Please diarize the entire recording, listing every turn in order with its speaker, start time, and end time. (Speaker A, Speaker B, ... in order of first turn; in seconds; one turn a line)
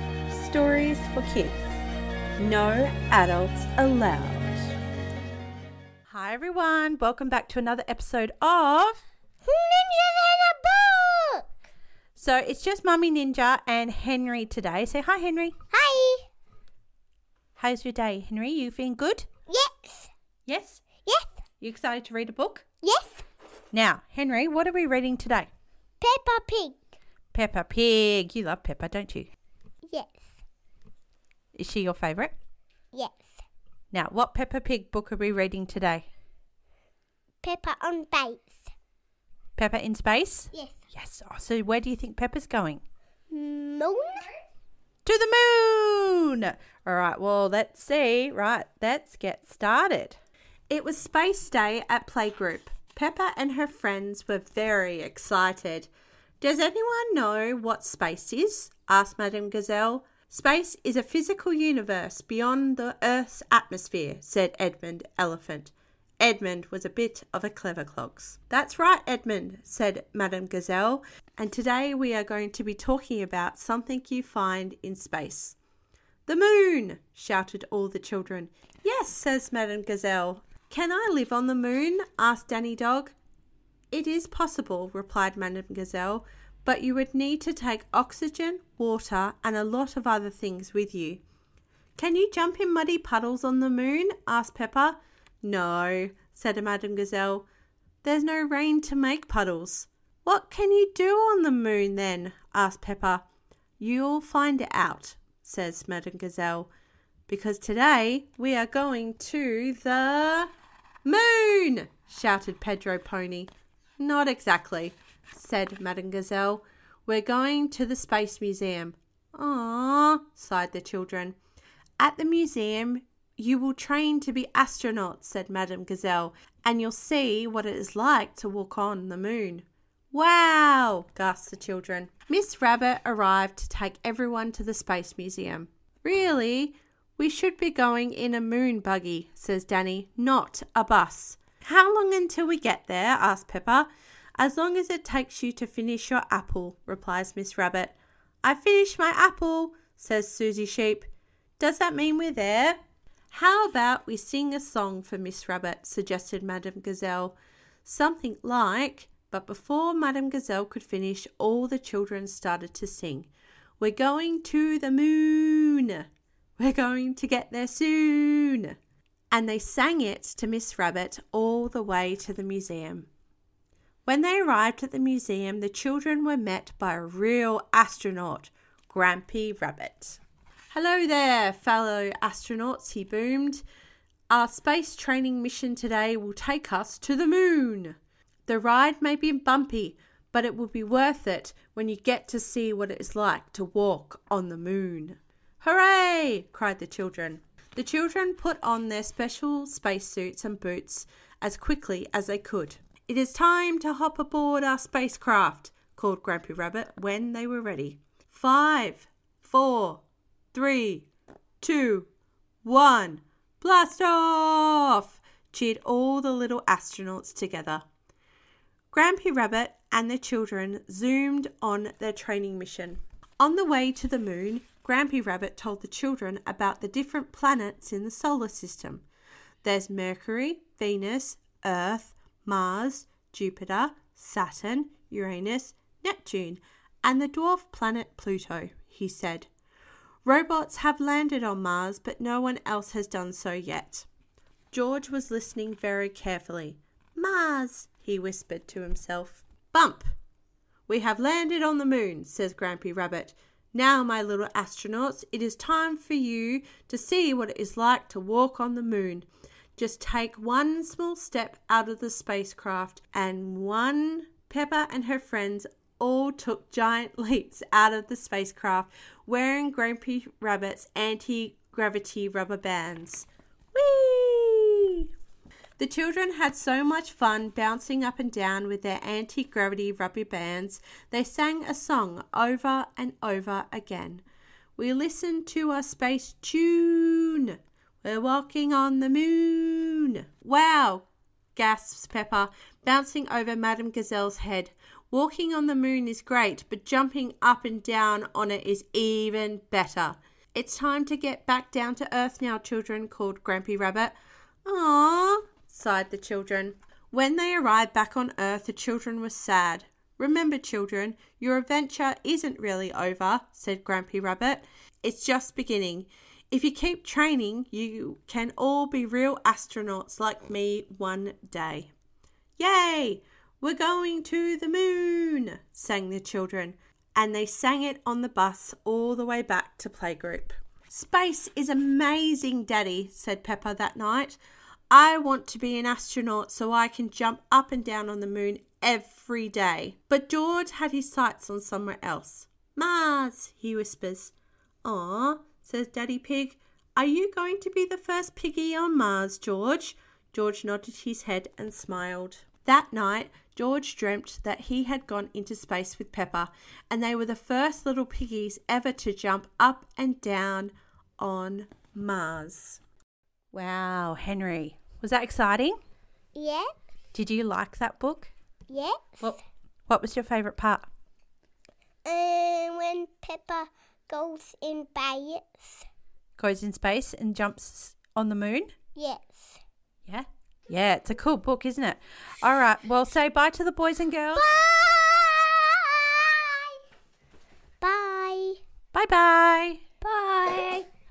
Speaker A: 0.3-1.8
Speaker A: 2.4-4.7
Speaker A: 6.1-9.0
Speaker B: 9.4-11.4
Speaker A: 12.1-15.6
Speaker B: 15.7-16.2
Speaker A: 17.6-19.3
Speaker B: 19.5-20.1
Speaker A: 20.4-20.9
Speaker B: 21.0-21.3
Speaker A: 21.6-22.6
Speaker B: 22.8-23.2
Speaker A: 23.7-25.5
Speaker B: 26.0-26.8
Speaker A: 27.3-29.3
Speaker B: 29.9-30.2
Speaker A: 31.5-32.3
Speaker B: 32.9-33.4
Speaker A: 33.9-36.1
Speaker B: 37.4-38.6
Speaker A: 39.5-42.8
Speaker B: 43.3-44.3
Speaker A: 45.0-50.2
Speaker A: 50.7-55.9
Speaker A: 56.4-75.6
Speaker A: 76.2-83.2
Speaker A: 83.9-91.2
Speaker A: 92.0-97.5
Speaker A: 98.0-103.2
Speaker A: 103.8-106.7
Speaker A: 107.3-110.5
Speaker A: 111.0-121.3
Speaker A: 122.0-152.8
Speaker A: 153.3-168.8
Speaker A: 169.3-173.1
Speaker A: 174.0-180.2
Speaker A: 180.7-183.6
Speaker A: 184.3-210.0
Speaker A: 210.5-211.1
Speaker A: 211.6-212.1
Speaker A: 212.6-217.8
Speaker A: 218.9-229.0
Speaker A: 229.6-239.5
Speaker A: 240.2-244.1
Speaker A: 244.7-250.1
Speaker A: 250.9-275.1
Speaker A: 275.8-284.2
Speaker A: 284.8-321.9
Speaker A: 322.6-334.4
Speaker A: 334.9-344.3
Speaker A: 344.8-362.8
Speaker A: 363.5-365.8
Speaker B: 366.3-366.7
Speaker A: 367.1-368.3
Speaker B: 368.7-369.3
Speaker A: 369.2-370.9
Speaker B: 372.0-375.8
Speaker A: 376.4-378.7
Speaker B: 378.9-379.6
Speaker A: 380.1-384.4
Speaker B: 384.3-386.8
Speaker B: 387.8-388.6
Speaker A: 388.9-390.0
Speaker B: 390.0-390.8